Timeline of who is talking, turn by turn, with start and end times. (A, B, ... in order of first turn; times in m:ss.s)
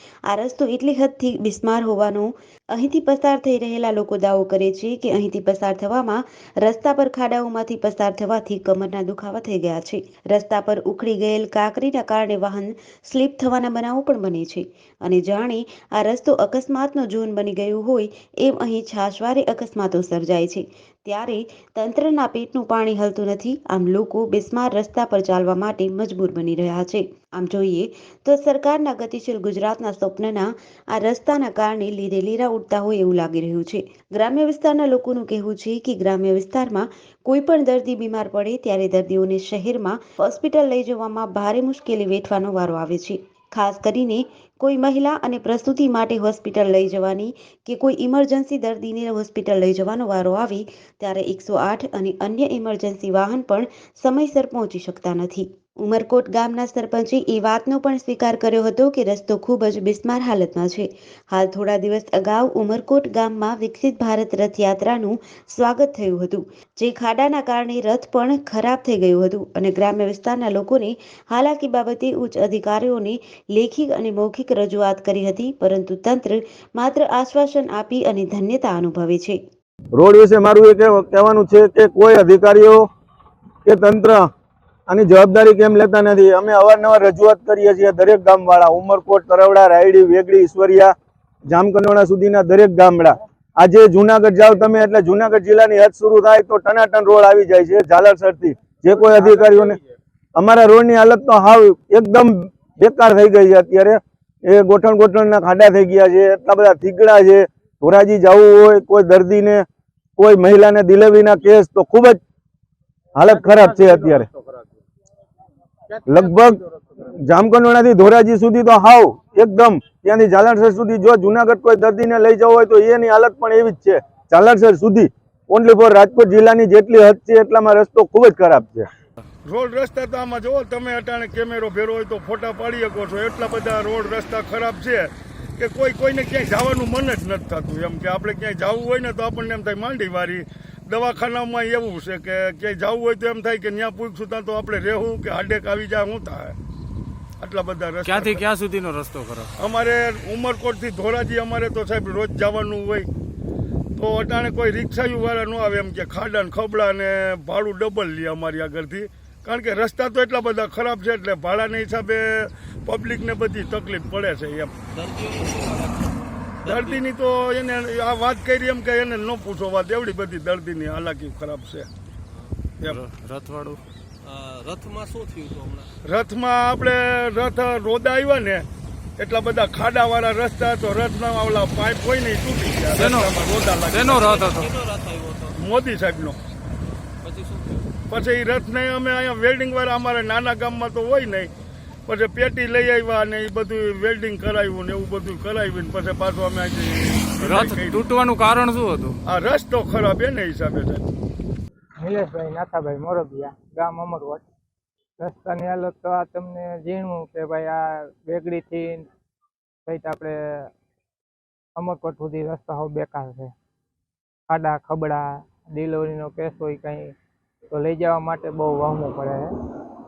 0:00.3-1:19.4 A
1:20.0-1:22.9 B
1:23.6-1:24.3 B
1:24.9-1:30.9 B
1:31.5-1:39.8 B
1:39.2-1:39.7 C
1:40.4-1:49.7 B
1:50.2-1:52.2 B
1:53.2-1:54.3 B
1:53.4-1:54.1 C
1:56.1-1:56.6 B
1:56.3-1:56.8 C
1:57.2-2:08.9 B
2:09.4-2:26.6 D
2:27.4-2:28.4 D
2:28.0-2:29.5 E
2:29.6-2:33.1 D
2:34.0-2:44.7 D
2:44.9-2:47.0 C
2:46.6-2:51.9 D
2:52.3-2:52.6 C
2:52.8-2:53.8 E
2:54.2-2:55.9 C
2:56.1-2:58.7 D
2:59.2-3:04.4 D
3:03.0-3:04.7 E
3:04.2-3:05.5 C
3:05.6-3:06.4 D
3:06.8-3:07.9 C
3:08.1-3:11.5 D
3:12.1-3:18.1 D
3:17.4-3:19.2 E
3:19.2-3:21.1 D
3:22.0-3:24.4 F
3:25.2-3:29.1 F
3:29.9-3:30.7 F
3:31.8-3:33.5 F
3:34.5-3:37.2 F
3:37.7-3:39.5 F